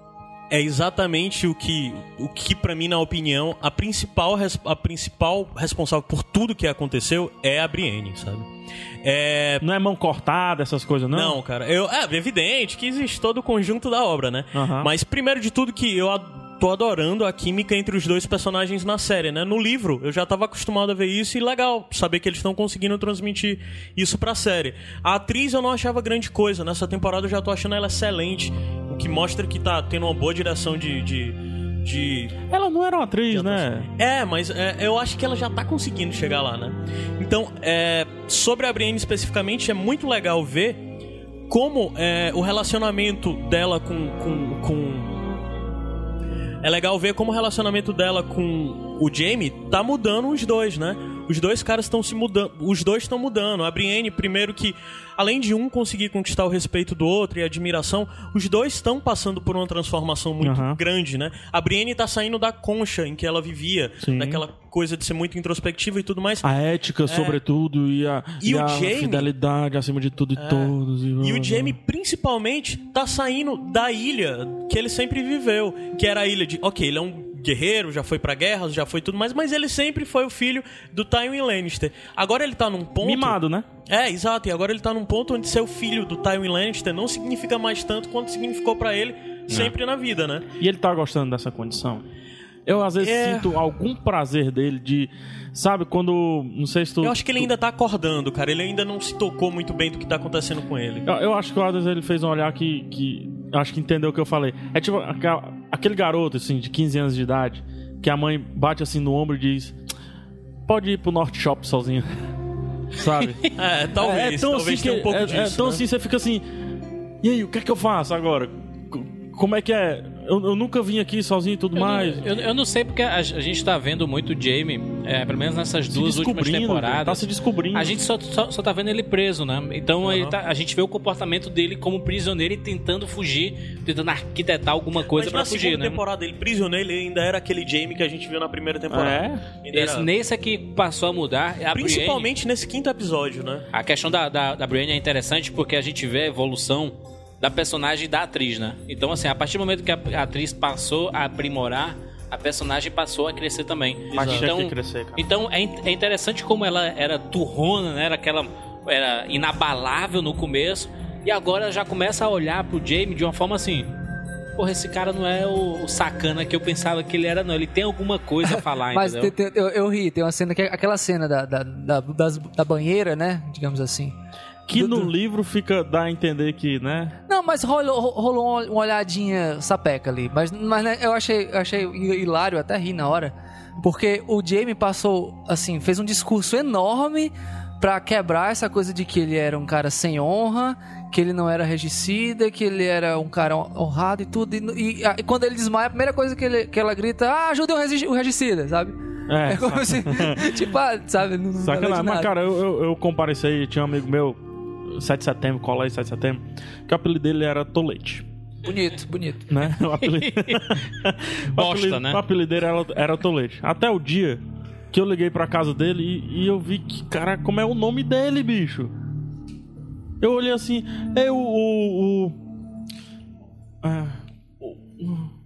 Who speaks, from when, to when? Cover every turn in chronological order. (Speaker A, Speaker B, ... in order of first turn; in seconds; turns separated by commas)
Speaker A: 0.5-8.5, Speaker A: 9.0-9.6, Speaker B: 9.6-11.4, Speaker A: 11.1-32.4, Speaker B: 14.5-14.9, Speaker B: 32.5-33.9, Speaker A: 33.3-40.9, Speaker A: 41.5-45.2, Speaker A: 46.6-66.4, Speaker B: 60.4-60.8, Speaker B: 64.0-64.4, Speaker B: 66.4-71.8, Speaker A: 67.1-67.4, Speaker A: 68.4-69.3, Speaker A: 70.4-83.4, Speaker B: 83.0-83.7, Speaker A: 83.9-90.5, Speaker C: 89.5-89.7, Speaker B: 90.6-92.1, Speaker B: 92.7-97.5, Speaker A: 93.0-93.6, Speaker A: 97.0-101.0, Speaker B: 101.0-109.8, Speaker B: 110.7-112.1, Speaker B: 112.9-113.4, Speaker A: 113.5-115.8, Speaker B: 114.0-116.4, Speaker B: 117.2-122.3, Speaker C: 121.7-127.2, Speaker B: 125.9-128.0, Speaker C: 127.7-136.0, Speaker A: 130.0-130.3, Speaker A: 135.1-140.1, Speaker B: 138.9-139.4, Speaker C: 139.7-142.3, Speaker A: 141.7-143.6, Speaker C: 143.7-163.9, Speaker A: 154.1-154.5, Speaker B: 154.1-155.2, Speaker C: 164.6-169.3, Speaker D: 168.5-174.1, Speaker B: 174.7-177.2, Speaker D: 174.8-175.1, Speaker D: 177.3-202.3, Speaker B: 199.3-200.6, Speaker B: 201.6-208.3, Speaker D: 208.6-209.5, Speaker B: 209.5-218.9, Speaker C: 210.0-210.8, Speaker C: 211.6-212.2, Speaker B: 220.2-222.4, Speaker B: 223.8-225.3